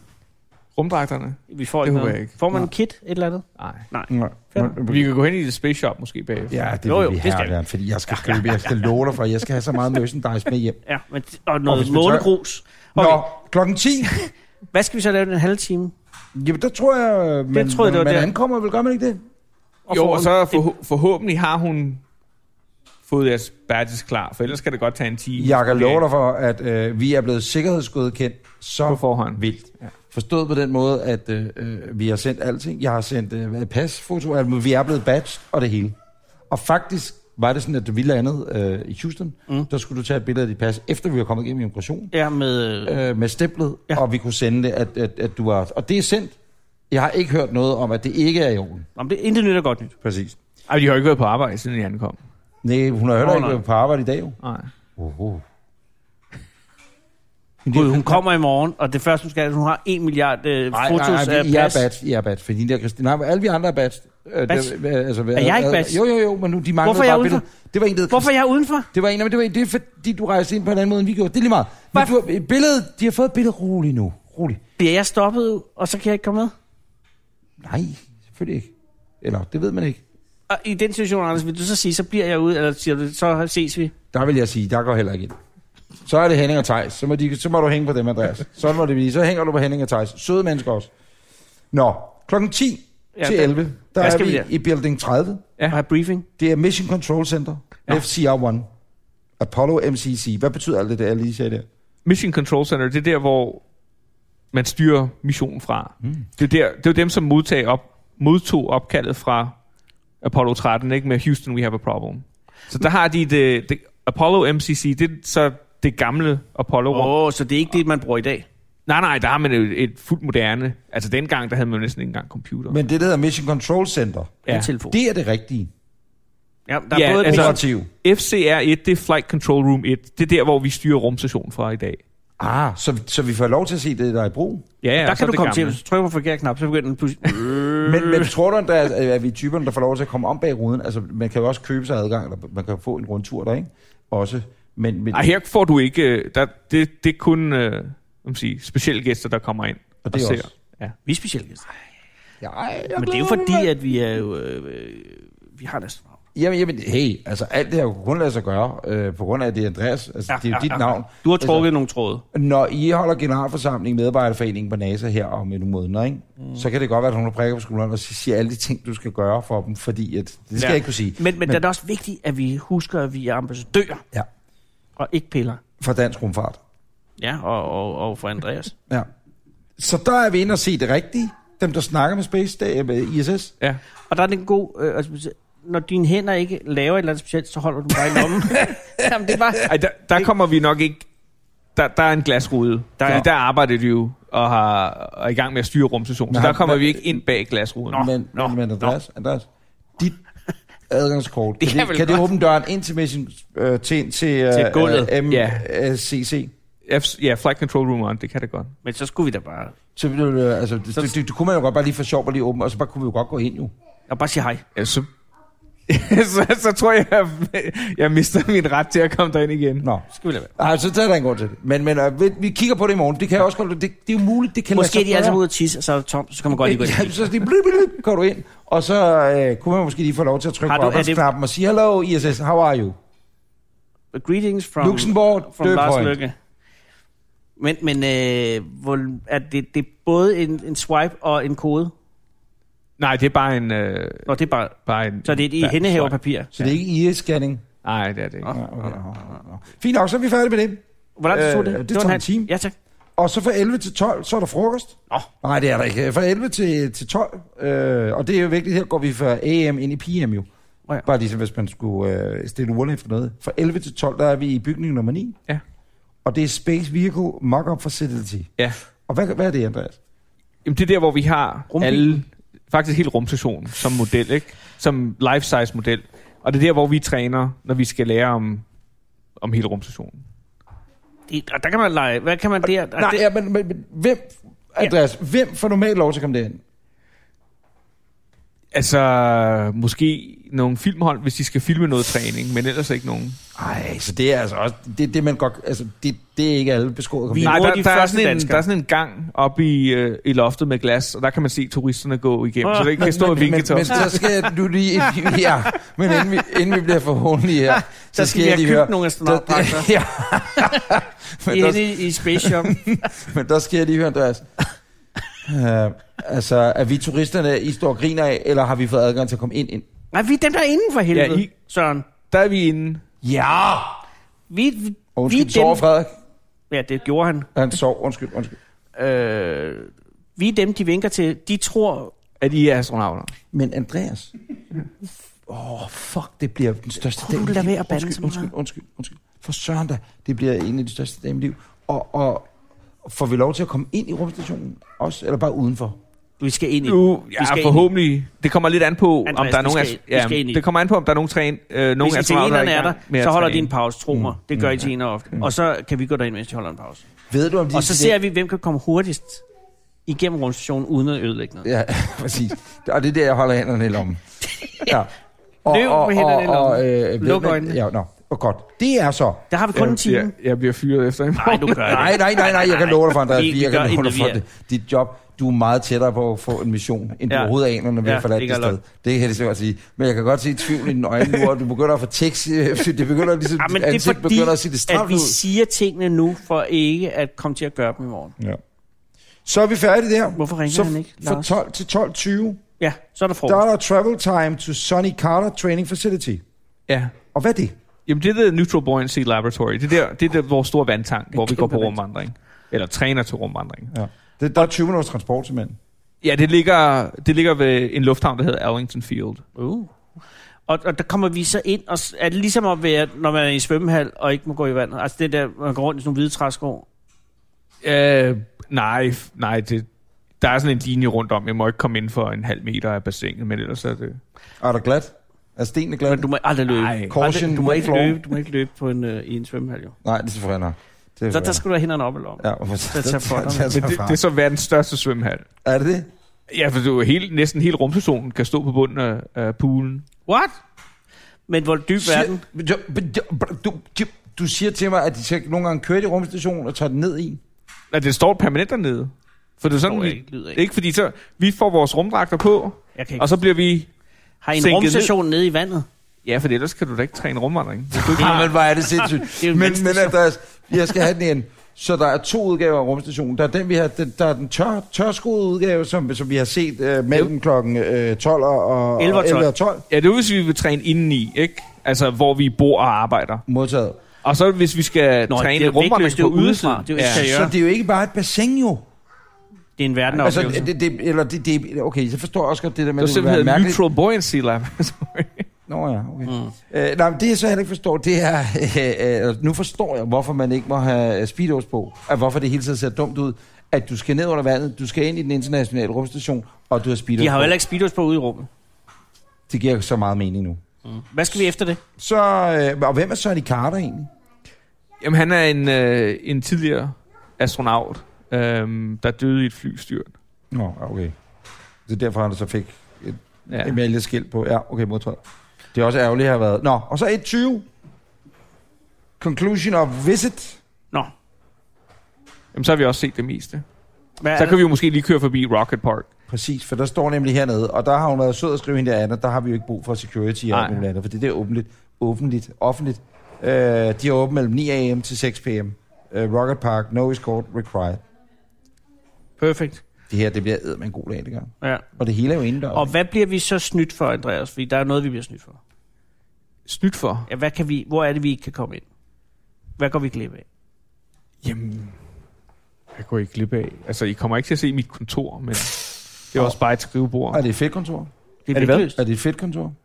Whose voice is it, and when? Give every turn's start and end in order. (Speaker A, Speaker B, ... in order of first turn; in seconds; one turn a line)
Speaker A: 0.8-2.3
Speaker B: 1.5-4.8
Speaker A: 3.6-3.9
Speaker C: 4.1-5.1
Speaker A: 4.8-6.7
Speaker C: 6.5-10.8
Speaker B: 6.8-7.6
Speaker B: 8.1-8.8
Speaker B: 10.8-13.2
Speaker C: 11.7-12.3
Speaker C: 12.9-14.1
Speaker B: 14.1-15.9
Speaker C: 16.3-19.2
Speaker B: 17.5-18.3
Speaker B: 19.9-20.6
Speaker A: 19.9-22.0
Speaker A: 23.1-26.0
Speaker C: 25.4-35.9
Speaker A: 28.9-29.4
Speaker C: 36.5-42.1
Speaker B: 42.1-43.0
Speaker C: 42.8-46.3
Speaker C: 46.9-48.9
Speaker B: 49.0-49.9
Speaker C: 50.0-50.4
Speaker A: 50.7-52.2
Speaker C: 52.6-54.4
Speaker B: 53.2-53.6
Speaker A: 54.4-54.7
Speaker C: 55.0-55.4
Speaker C: 57.6-58.2
Speaker B: 57.7-61.9
Speaker C: 60.7-68.3
Speaker B: 64.5-64.7
Speaker B: 65.3-66.0
Speaker B: 66.8-67.4
Speaker B: 68.1-68.9
Speaker C: 68.9-74.6
Speaker B: 74.8-76.5
Speaker C: 77.6-80.0
Speaker B: 80.5-83.9
Speaker C: 84.1-85.3
Speaker C: 86.0-90.9
Speaker C: 91.7-95.5
Speaker B: 93.2-94.5
Speaker B: 95.7-96.3
Speaker C: 96.4-98.7
Speaker C: 99.4-101.7
Speaker A: 102.0-103.6
Speaker A: 104.5-109.5
Speaker A: 110.2-117.1
Speaker B: 116.9-118.5
Speaker A: 118.9-122.8
Speaker C: 122.7-125.7
Speaker B: 124.5-125.0
Speaker B: 126.7-127.6
Speaker A: 126.9-132.0
Speaker C: 127.2-127.9
Speaker C: 132.4-134.7
Speaker A: 134.8-135.8
Speaker B: 135.0-138.3
Speaker C: 137.8-145.3
Speaker A: 145.1-150.9
Speaker C: 150.0-150.5
Speaker B: 151.1-151.7
Speaker C: 152.4-153.7
Speaker B: 152.9-156.1
Speaker C: 156.3-161.7
Speaker B: 160.3-162.2
Speaker C: 162.3-171.6
Speaker B: 170.6-174.0
Speaker B: 175.0-175.6
Speaker C: 175.8-176.6
Speaker B: 177.2-178.7
Speaker C: 179.8-183.5
Speaker B: 184.1-189.7
Speaker A: 189.6-191.1
Speaker A: 191.8-198.1
Speaker B: 193.0-193.3
Speaker C: 196.3-197.2
Speaker B: 197.9-198.9
Speaker C: 197.9-199.4
Speaker C: 200.9-206.5
Speaker B: 201.6-202.3
Speaker B: 204.5-205.1
Speaker A: 205.3-205.7
Speaker A: 206.9-208.7
Speaker B: 208.8-209.7
Speaker C: 209.9-213.7
Speaker B: 214.1-214.6
Speaker A: 214.7-215.1
Speaker A: 215.9-219.8
Speaker C: 219.8-225.4
Speaker B: 220.1-220.5
Speaker B: 224.7-227.3
Speaker C: 226.5-232.9
Speaker B: 230.7-231.3
Speaker B: 234.1-236.3
Speaker C: 234.8-236.2
Speaker B: 237.6-241.9
Speaker A: 243.0-244.3
Speaker B: 244.3-246.5
Speaker A: 244.8-246.7
Speaker C: 246.5-247.7
Speaker A: 247.8-248.5
Speaker C: 248.5-252.5
Speaker B: 251.2-252.7
Speaker C: 253.2-260.5
Speaker C: 261.0-265.4
Speaker C: 266.2-268.5
Speaker C: 269.1-270.0
Speaker A: 270.6-278.6
Speaker B: 271.7-272.2
Speaker A: 279.4-280.2
Speaker B: 281.3-283.2
Speaker C: 282.9-286.6
Speaker A: 288.7-293.4
Speaker C: 293.6-297.6
Speaker B: 297.3-298.6
Speaker A: 297.4-304.2
Speaker B: 302.6-303.4
Speaker C: 303.0-314.4
Speaker B: 307.7-309.9
Speaker B: 310.6-310.9
Speaker B: 311.5-312.8
Speaker C: 315.4-319.9
Speaker B: 320.1-322.1
Speaker A: 321.1-321.5
Speaker A: 322.3-323.0
Speaker C: 323.2-324.0
Speaker B: 324.5-325.8
Speaker C: 325.1-326.1
Speaker B: 326.7-327.5
Speaker C: 327.6-328.6
Speaker B: 328.9-332.1
Speaker A: 332.4-333.3
Speaker C: 333.5-334.3
Speaker C: 335.5-342.5
Speaker B: 337.1-338.5
Speaker C: 343.0-346.0
Speaker B: 346.4-347.9
Speaker A: 346.8-353.7
Speaker B: 349.3-350.6
Speaker B: 352.0-357.0
Speaker C: 354.1-355.5
Speaker C: 357.3-358.2
Speaker B: 357.7-359.4
Speaker B: 360.1-361.7
Speaker C: 361.6-364.2
Speaker B: 364.6-364.9
Speaker C: 364.7-365.1
Speaker C: 365.6-369.5
Speaker B: 365.7-367.8
Speaker B: 369.5-370.3
Speaker A: 369.7-372.1
Speaker B: 371.4-374.4
Speaker C: 371.8-385.4
Speaker B: 378.0-378.8
Speaker B: 383.6-388.3
Speaker C: 389.4-392.6
Speaker B: 390.4-391.6
Speaker B: 392.8-393.6
Speaker C: 393.4-396.4
Speaker A: 396.9-397.1
Speaker C: 397.3-397.7
Speaker A: 398.1-403.9
Speaker B: 401.3-402.0
Speaker C: 403.9-405.8
Speaker A: 406.2-409.4
Speaker B: 409.6-409.9
Speaker B: 410.7-416.9
Speaker A: 417.8-419.9
Speaker A: 420.4-424.2
Speaker C: 424.6-426.3
Speaker B: 426.1-429.9
Speaker A: 426.7-427.2
Speaker C: 427.1-428.2
Speaker C: 430.0-431.6
Speaker B: 431.3-433.7
Speaker C: 432.4-434.2
Speaker A: 433.7-435.4
Speaker C: 435.6-436.1
Speaker A: 436.5-440.1
Speaker B: 440.3-440.6
Speaker B: 441.5-442.4
Speaker C: 442.0-447.4
Speaker A: 447.9-453.9
Speaker B: 449.8-450.6
Speaker B: 452.9-453.3
Speaker B: 454.4-455.9
Speaker A: 454.6-455.1
Speaker A: 456.2-458.5
Speaker C: 458.0-469.8
Speaker B: 458.1-458.5
Speaker B: 459.0-460.1
Speaker B: 469.0-469.5
Speaker A: 469.9-473.4
Speaker C: 473.5-474.0
Speaker A: 474.2-477.3
Speaker B: 475.3-477.5
Speaker C: 477.0-478.8
Speaker B: 479.8-480.7
Speaker C: 480.1-483.8
Speaker A: 483.0-485.5
Speaker C: 485.7-497.6
Speaker B: 486.3-486.6
Speaker B: 497.2-498.5
Speaker C: 499.5-500.6
Speaker B: 500.9-501.8
Speaker C: 502.0-504.1
Speaker A: 505.0-510.1
Speaker C: 510.5-511.1
Speaker C: 511.9-515.2
Speaker A: 513.5-513.8
Speaker C: 515.7-517.6
Speaker C: 519.2-520.6
Speaker A: 522.5-523.6
Speaker B: 524.2-524.6
Speaker A: 524.4-526.1
Speaker C: 526.3-538.0
Speaker A: 530.5-530.8
Speaker B: 539.4-539.8
Speaker C: 540.1-542.9
Speaker B: 542.7-545.6
Speaker A: 546.7-547.3
Speaker B: 547.3-548.8
Speaker B: 549.8-550.4
Speaker A: 551.4-552.0
Speaker A: 552.9-557.4
Speaker C: 557.3-559.8
Speaker B: 558.5-559.0